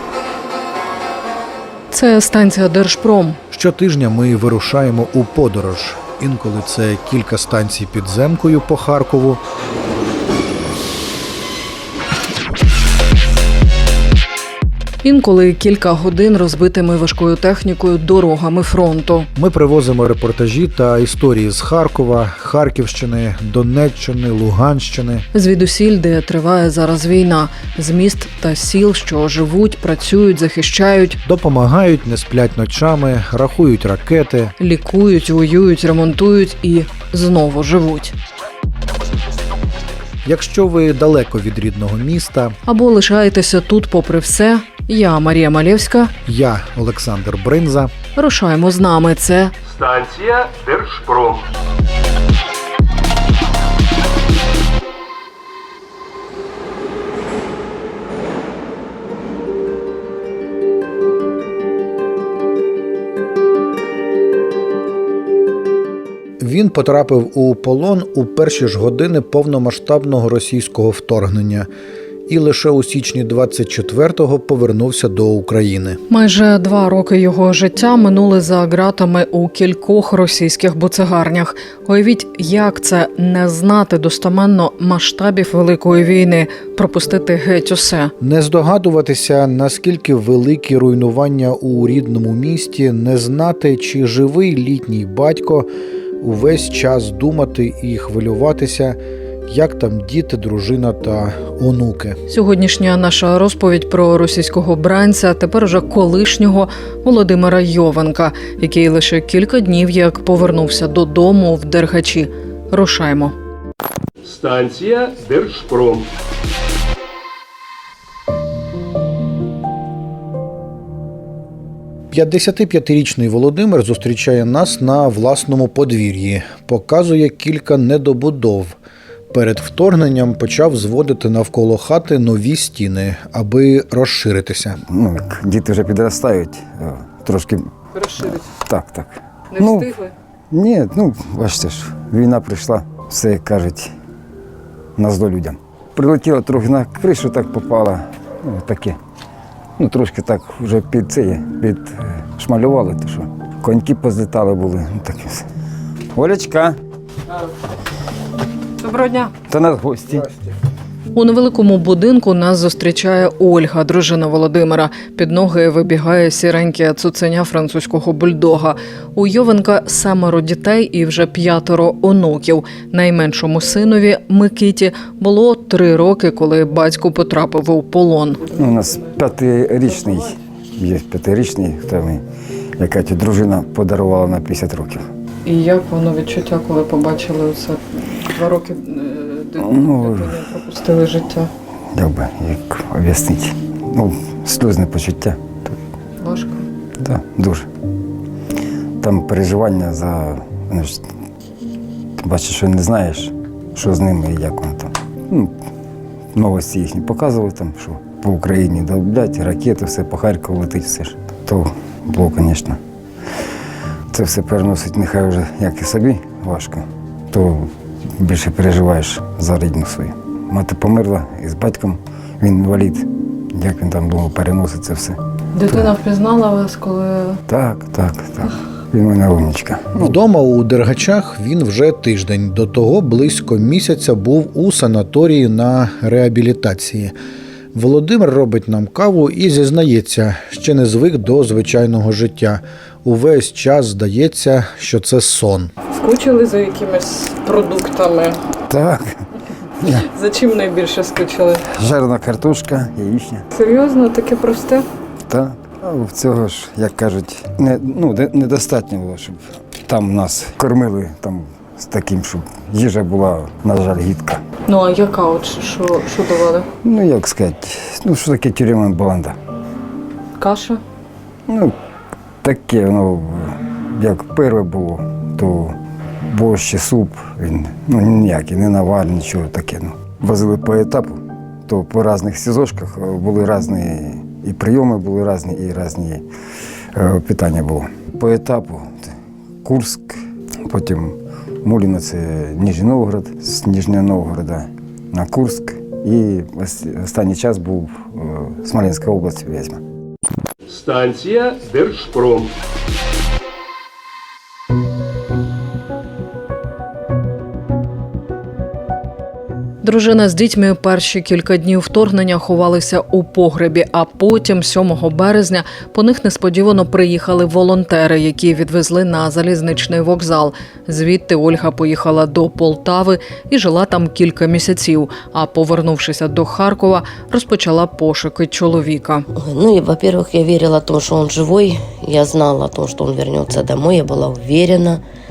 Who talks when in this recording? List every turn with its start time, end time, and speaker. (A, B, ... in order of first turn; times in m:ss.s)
0:01.9-0:03.4 A
0:03.5-0:09.4 B
0:15.0-0:19.3 A
0:19.4-0:25.2 B
0:25.3-0:31.2 A
0:31.2-0:34.5 B
0:34.6-0:38.2 A
0:40.2-0:42.6 B
0:42.6-0:46.1 A
0:46.3-0:47.9 B
0:48.2-0:49.5 A
0:49.6-0:51.5 C
1:06.4-1:11.7 B
1:12.3-1:16.0 B
1:16.1-1:28.1 A
1:28.2-1:35.7 B
1:36.2-1:42.2 B
1:42.3-1:53.4 A
1:54.2-1:56.1 C
2:02.1-2:08.8 B
2:09.3-2:14.8 B
2:14.8-2:17.7 D
2:18.0-2:18.4 A
2:18.2-2:19.9 D
2:19.5-2:20.1 A
2:20.5-2:23.9 D
2:25.0-2:29.0 D
2:29.8-2:35.5 D
2:36.1-2:36.8 D
2:38.8-2:39.3 A
2:39.5-2:40.3 D
2:41.1-2:58.6 A
2:58.6-3:02.2 D
3:02.8-3:05.1 D
3:05.4-3:11.5 A
3:09.6-3:10.4 D
3:11.9-3:15.8 D
3:16.2-3:16.6 A
3:17.0-3:17.7 D
3:19.0-3:21.1 D
3:22.2-3:25.5 D
3:26.4-3:32.8 D
3:34.1-3:45.2 D
3:45.6-3:47.4 A
3:47.5-3:50.1 D
3:50.0-3:57.1 B
3:57.7-4:05.7 B
4:05.9-4:08.4 A
4:08.7-4:09.2 D
4:09.8-4:11.6 A
4:11.6-4:13.5 D
4:13.5-4:14.8 A
4:15.3-4:24.4 D
4:24.7-4:26.7 A
4:26.8-4:29.4 D
4:30.4-4:30.8 A
4:31.5-4:31.7 D
4:32.4-4:35.8 D
4:36.3-4:46.2 D
4:46.9-4:59.8 D
5:00.7-5:02.6 C
5:09.8-5:29.3 A
5:29.4-5:35.0 E